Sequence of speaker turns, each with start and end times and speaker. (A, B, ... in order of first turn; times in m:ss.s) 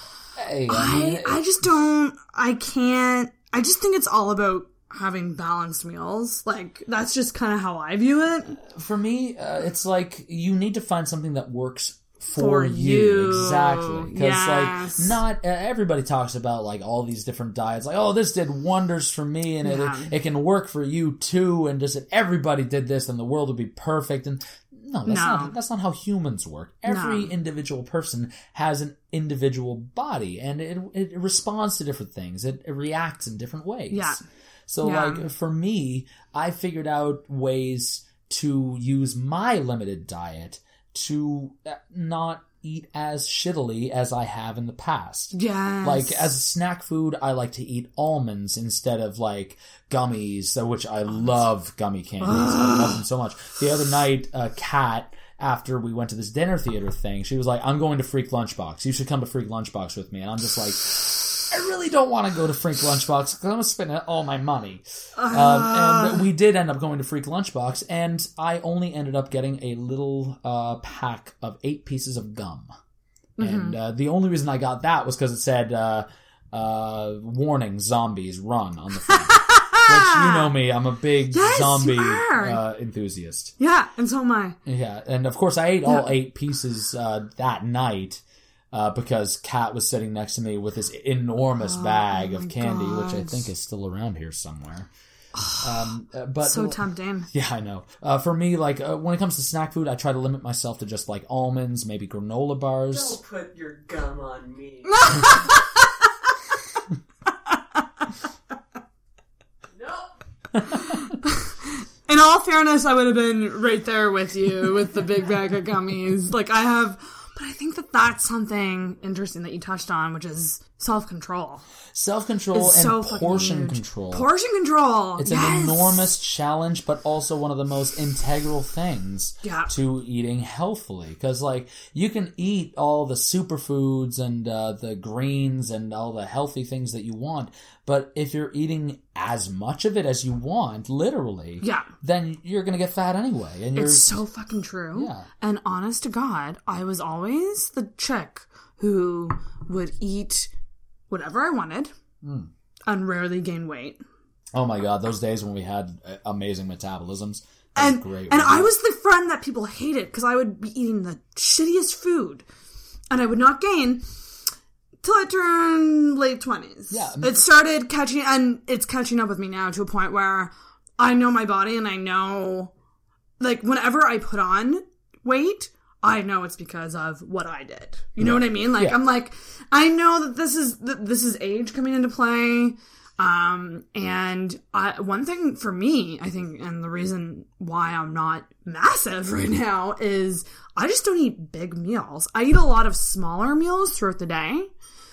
0:00.4-0:01.4 A
0:00.7-0:08.6 B
0:08.6-1:12.7 A
0:12.4-0:15.2 B
0:19.6-0:20.1 B
0:25.1-0:25.5 B
0:26.9-0:27.3 B
0:33.9-0:34.2 B
0:34.8-0:35.2 B
0:45.3-0:46.3 B
0:52.2-0:53.0 B
1:05.2-1:06.3 B
1:13.4-1:13.8 B
1:13.4-1:23.5 A
1:19.1-1:20.5 B
1:21.3-1:22.6 B
1:23.6-1:24.6 B
1:24.6-1:34.9 A
1:31.6-1:33.5 B
1:35.4-1:35.9 B
1:35.6-1:43.2 A
1:36.4-1:37.3 B
1:42.9-1:45.6 C
1:44.9-1:45.9 B
1:47.5-1:47.8 B
1:49.8-1:50.1 C
1:50.6-1:50.9 A
1:50.7-2:01.6 B
2:01.9-2:04.3 A
2:02.5-2:06.1 B
2:05.2-2:24.2 A
2:09.4-2:09.7 B
2:21.6-2:21.9 B
2:23.8-2:30.5 B
2:25.0-2:25.3 A
2:31.1-2:31.9 B
2:32.2-2:32.5 A
2:32.9-2:34.0 B
2:34.5-2:38.7 A
2:37.8-2:42.4 B
2:43.1-2:44.1 B
2:45.0-2:52.7 B
2:46.9-2:47.4 A
2:53.4-3:14.7 B
2:58.2-2:59.0 A